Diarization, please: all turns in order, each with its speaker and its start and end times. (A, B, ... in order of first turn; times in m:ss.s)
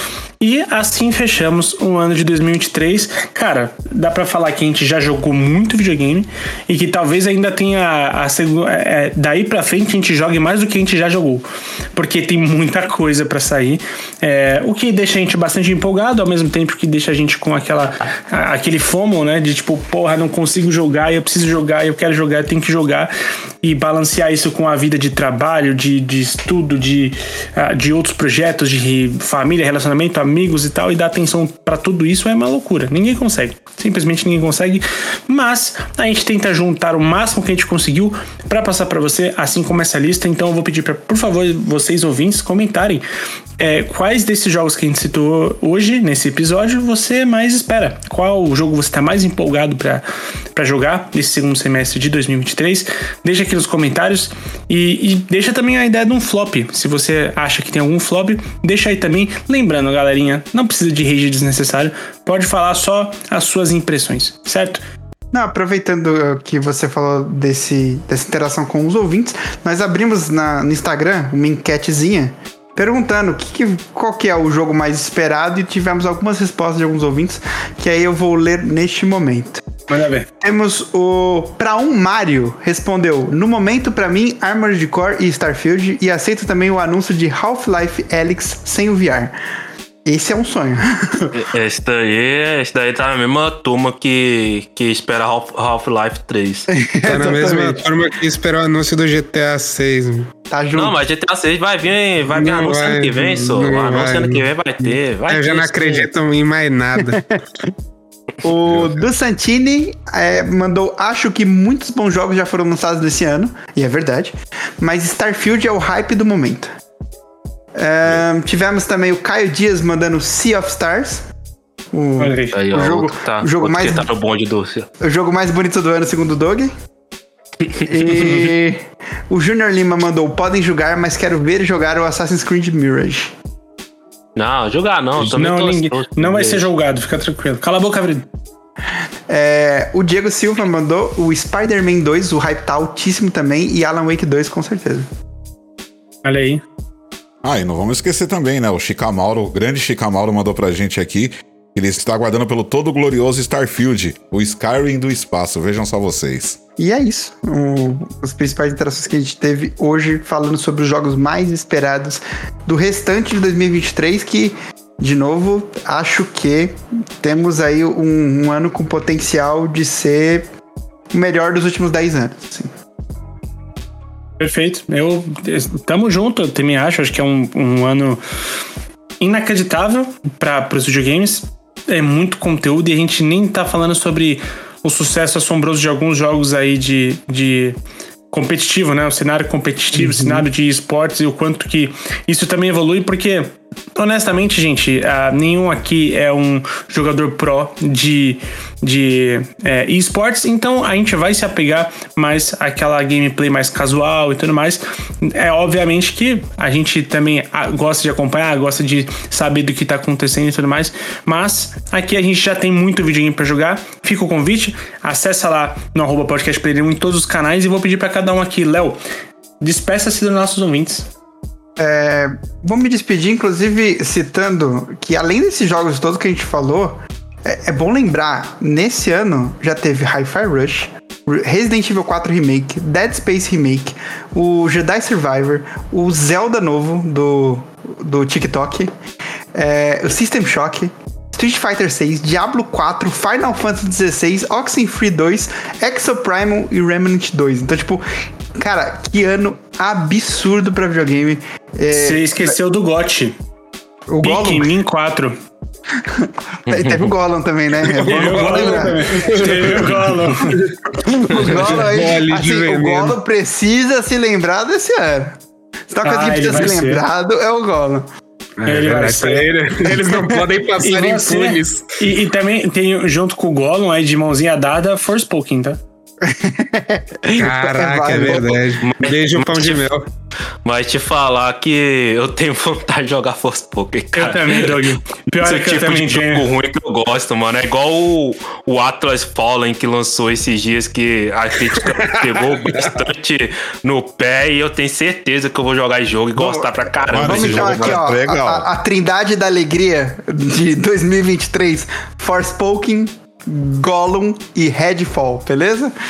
0:00.4-0:23.1 A
0:23.6-0:43.0 A
0:43.6-1:04.8 A
1:05.3-1:19.6 B
1:19.9-1:20.3 A
1:20.4-1:29.4 B
1:30.0-1:31.4 B
1:31.3-1:36.7 C
1:36.7-1:37.9 B
1:37.0-1:40.3 D
1:40.5-1:40.9 B
1:40.7-1:46.1 C
1:42.3-1:47.2 D
1:47.0-1:47.4 B
1:48.4-1:56.7 B
1:57.8-2:01.3 B
2:01.9-2:04.1 B
2:02.2-2:02.6 A
2:02.5-2:04.9 C
2:05.0-2:06.7 B
2:07.6-2:08.5 C
2:07.8-2:13.3 B
2:14.4-2:16.7 C
2:15.2-2:18.3 A
2:19.3-2:25.1 B
2:26.2-2:26.6 A
2:27.4-2:36.6 E
2:36.8-2:50.5 B
2:51.1-2:52.7 B
2:54.4-2:58.2 A
2:59.2-3:07.8 A
3:08.3-3:39.0 A
3:09.9-3:10.4 B
3:39.6-3:41.1 A
3:41.8-3:58.9 B
3:59.5-4:12.2 B
4:11.9-4:13.4 A
4:14.1-4:14.7 B
4:14.2-4:15.4 A
4:16.0-4:25.4 B
4:16.7-4:17.1 C
4:17.9-4:20.7 D
4:18.0-4:20.7 A
4:21.3-4:23.2 D
4:25.9-4:28.1 B
4:26.0-4:27.0 A
4:28.6-4:32.0 D
4:28.6-4:29.5 A
4:29.9-4:30.4 B
4:30.8-4:35.8 A
4:36.2-4:38.7 B
4:37.4-4:40.1 D
4:38.8-4:39.9 C
4:40.6-4:58.0 C
4:44.1-4:46.4 A
4:51.8-4:53.0 D
4:56.4-5:05.9 B
4:57.1-4:58.7 E